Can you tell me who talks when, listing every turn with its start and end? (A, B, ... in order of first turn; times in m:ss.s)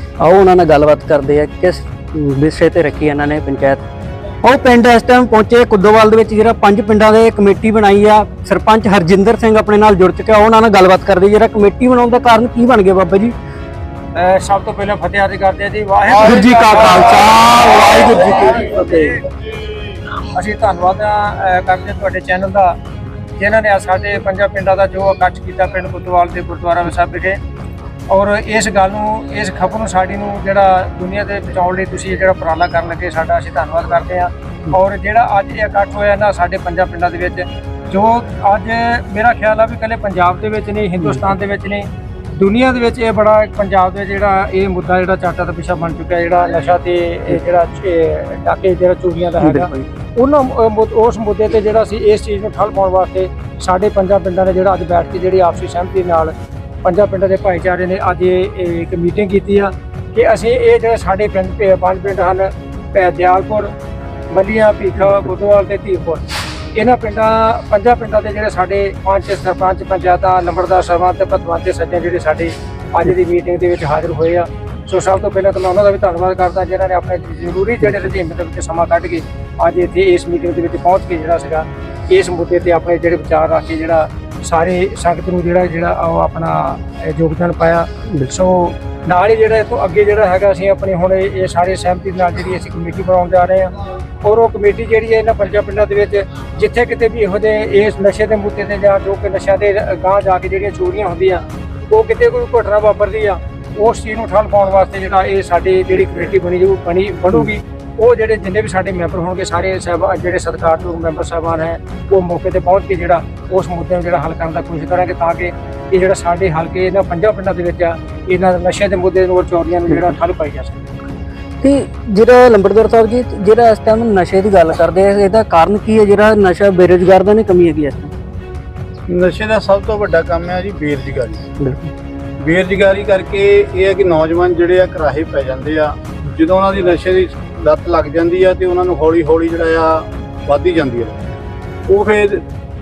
0:00.2-0:03.8 A
0:04.4-0:13.3 A
0:14.1-0:19.2 B
0:16.1-0:19.2 A
0:20.3-0:22.8 B
0:23.4-0:27.4 B
0:28.1-0:56.3 B
0:49.4-0:49.9 A
0:56.8-1:03.7 B
1:04.3-1:06.2 B
1:06.7-1:33.7 B
1:34.2-2:00.8 B
2:01.6-2:08.1 A
2:09.1-2:11.4 C
2:11.6-2:11.9 A
2:12.4-2:21.2 C
2:21.9-2:22.4 C